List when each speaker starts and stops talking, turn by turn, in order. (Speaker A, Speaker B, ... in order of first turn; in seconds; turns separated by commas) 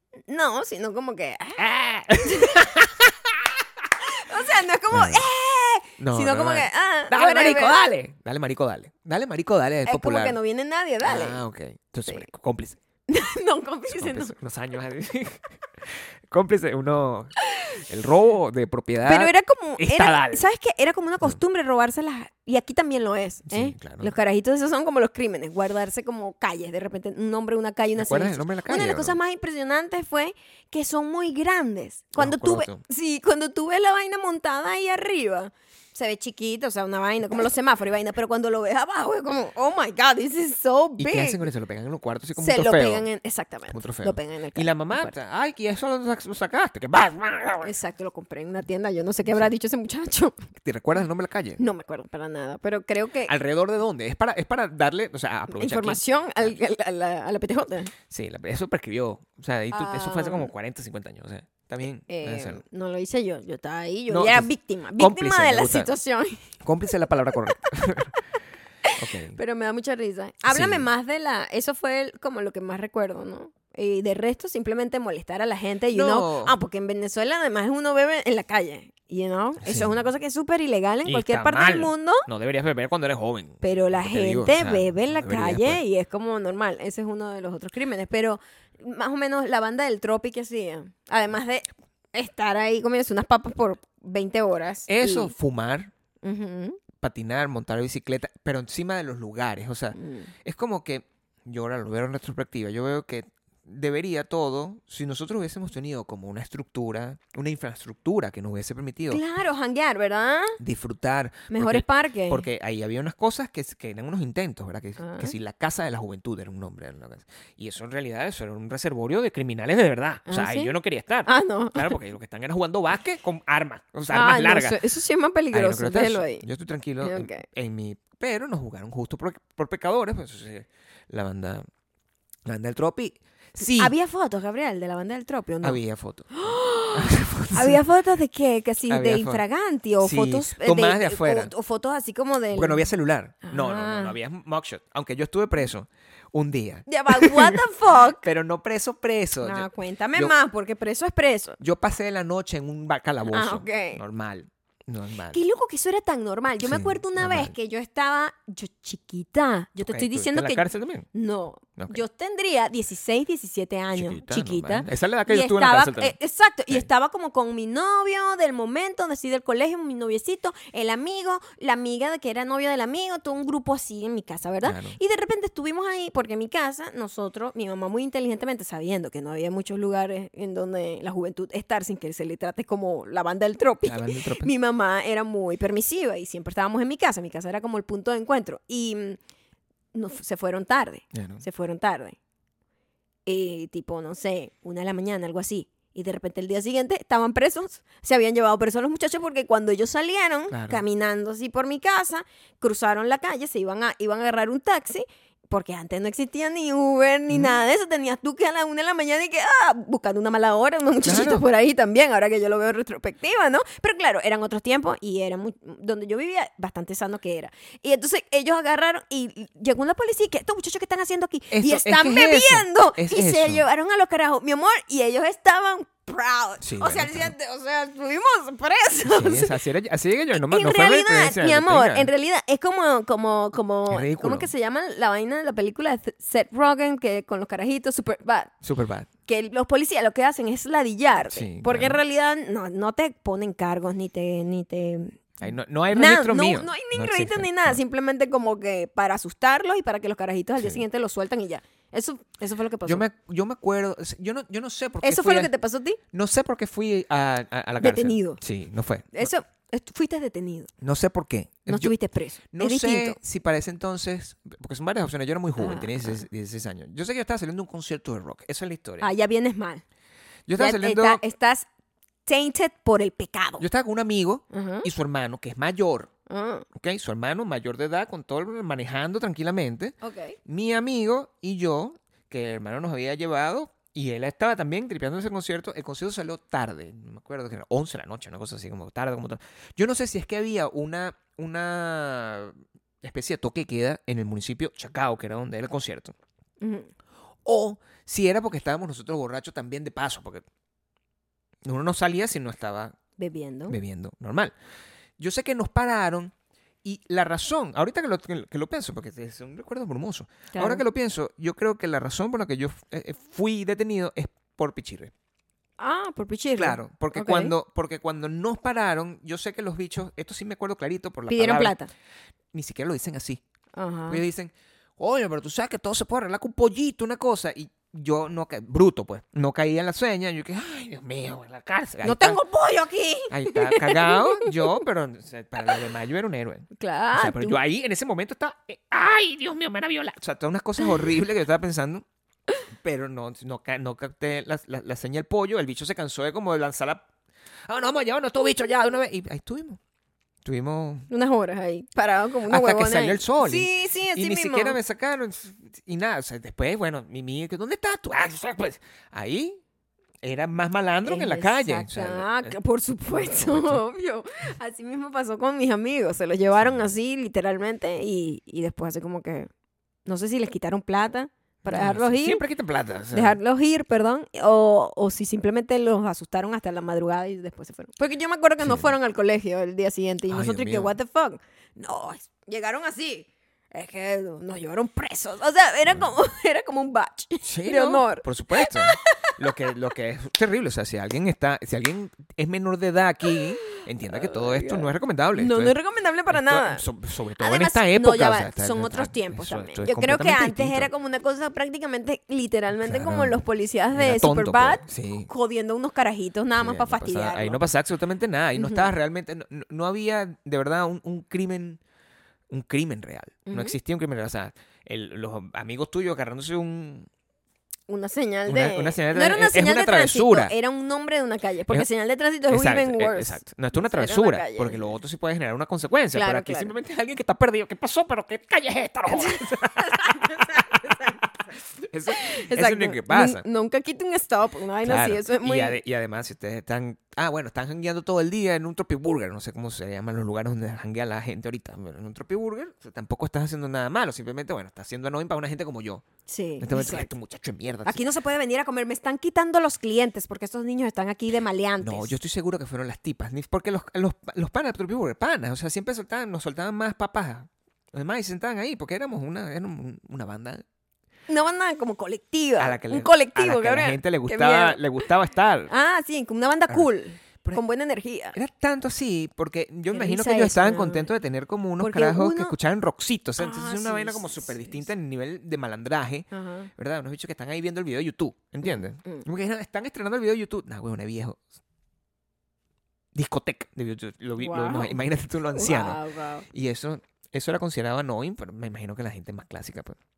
Speaker A: 0.3-1.6, Speaker B: 1.6-3.5, Speaker A: 2.2-2.7, Speaker A: 4.0-7.9, Speaker B: 4.9-5.2, Speaker B: 6.0-10.4, Speaker A: 9.8-11.4, Speaker B: 11.0-12.8, Speaker A: 13.1-14.3, Speaker B: 13.9-20.4, Speaker A: 17.4-17.8, Speaker A: 19.0-41.5, Speaker B: 23.5-24.1, Speaker B: 27.9-29.2, Speaker B: 32.2-32.8, Speaker B: 41.0-43.0, Speaker A: 42.4-45.1, Speaker B: 43.7-47.7, Speaker A: 47.6-50.5, Speaker B: 50.6-51.6, Speaker A: 51.6-53.3, Speaker B: 53.3-56.5, Speaker A: 55.5-57.9, Speaker B: 58.1-62.6, Speaker A: 59.7-60.5, Speaker A: 62.1-66.5, Speaker B: 64.1-65.9, Speaker B: 66.6-68.1, Speaker A: 68.8-82.3, Speaker B: 69.0-69.4, Speaker B: 70.5-70.9, Speaker B: 75.9-76.5, Speaker B: 79.6-80.0, Speaker B: 81.0-85.8, Speaker A: 83.6-95.3, Speaker B: 94.9-95.9, Speaker A: 96.2-96.8, Speaker B: 97.0-109.2, Speaker A: 99.9-100.3, Speaker A: 109.1-110.6, Speaker B: 110.6-124.8, Speaker A: 111.5-112.5, Speaker A: 115.0-115.3, Speaker A: 120.3-120.7, Speaker A: 121.2-122.0, Speaker A: 124.1-126.4, Speaker B: 125.5-131.6, Speaker A: 127.0-127.4, Speaker B: 132.4-133.9, Speaker A: 133.6-135.8, Speaker B: 135.6-136.3, Speaker A: 136.3-142.9, Speaker B: 136.9-137.8, Speaker B: 138.9-139.4, Speaker B: 140.0-141.5, Speaker B: 142.5-150.3, Speaker A: 143.4-144.2, Speaker A: 146.9-148.2, Speaker A: 149.4-151.6, Speaker B: 151.6-155.4, Speaker A: 153.3-154.0, Speaker A: 155.3-189.2, Speaker B: 156.6-157.5, Speaker B: 159.8-161.1, Speaker B: 163.9-166.1, Speaker B: 174.6-175.0, Speaker B: 183.8-184.5, Speaker A: 189.9-192.2, Speaker B: 191.1-191.4, Speaker A: 193.2-229.5, Speaker B: 200.5-200.8, Speaker B: 211.0-211.4, Speaker B: 221.5-223.6, Speaker B: 226.6-227.3, Speaker B: 229.0-232.1, Speaker A: 230.3-238.5, Speaker B: 233.9-234.5, Speaker B: 238.6-239.1, Speaker A: 239.3-245.4, Speaker B: 241.2-242.0, Speaker B: 245.4-247.8, Speaker A: 245.9-253.0, Speaker B: 252.8-255.5, Speaker A: 255.0-256.0, Speaker B: 256.1-259.3, Speaker A: 257.8-258.4, Speaker A: 259.1-260.7, Speaker B: 260.8-261.9, Speaker A: 261.7-263.2, Speaker B: 262.5-269.1, Speaker A: 265.6-266.2, Speaker A: 269.0-269.8, Speaker B: 270.5-271.2, Speaker A: 270.6-271.7, Speaker A: 272.2-273.6, Speaker B: 273.6-276.1, Speaker A: 274.5-274.9, Speaker A: 276.3-276.7, Speaker B: 276.7-296.1, Speaker A: 280.0-280.4, Speaker A: 296.6-296.9, Speaker B: 297.4-300.4, Speaker B: 301.6-303.0, Speaker A: 303.2-303.8, Speaker B: 303.7-304.5, Speaker B: 305.2-306.3, Speaker B: 306.8-315.1, Speaker A: 310.5-310.8, Speaker A: 315.8-317.5, Speaker B: 316.6-321.8, Speaker A: 321.3-321.9, Speaker B: 322.5-323.4, Speaker A: 323.7-324.2, Speaker B: 324.1-332.4, Speaker A: 332.0-334.6, Speaker B: 333.3-342.0, Speaker A: 336.7-337.6, Speaker B: 342.8-347.1, Speaker B: 347.6-349.8, Speaker B: 350.4-351.1, Speaker A: 351.1-354.8, Speaker B: 352.5-359.6, Speaker B: 360.2-362.5, Speaker A: 361.0-369.5, Speaker B: 363.1-363.8, Speaker A: 370.1-372.4, Speaker B: 371.6-373.4, Speaker A: 373.1-389.4, Speaker B: 378.6-378.9, Speaker B: 380.3-380.9, Speaker B: 387.4-395.7, Speaker A: 393.3-396.9, Speaker B: 396.3-400.9, Speaker A: 397.4-407.6, Speaker B: 402.8-403.4, Speaker B: 403.9-405.3, Speaker B: 406.5-411.8, Speaker A: 408.6-408.9, Speaker B: 412.5-417.1, Speaker A: 413.4-413.8, Speaker A: 417.9-424.8, Speaker B: 418.4-420.5, Speaker B: 422.5-433.4, Speaker A: 426.1-426.7, Speaker A: 429.1-431.2, Speaker A: 432.1-435.8, Speaker B: 434.8-446.0, Speaker A: 446.3-447.1, Speaker B: 446.6-448.0, Speaker A: 447.8-452.1, Speaker B: 451.8-460.6, Speaker A: 461.3-465.1, Speaker B: 462.6-465.7, Speaker A: 465.7-468.4, Speaker B: 468.3-481.4, Speaker A: 469.9-471.1, Speaker A: 471.8-472.5, Speaker A: 473.4-474.8, Speaker A: 476.3-476.7, Speaker A: 478.6-479.2, Speaker B: 483.1-490.0, Speaker A: 484.4-485.0, Speaker A: 485.5-486.4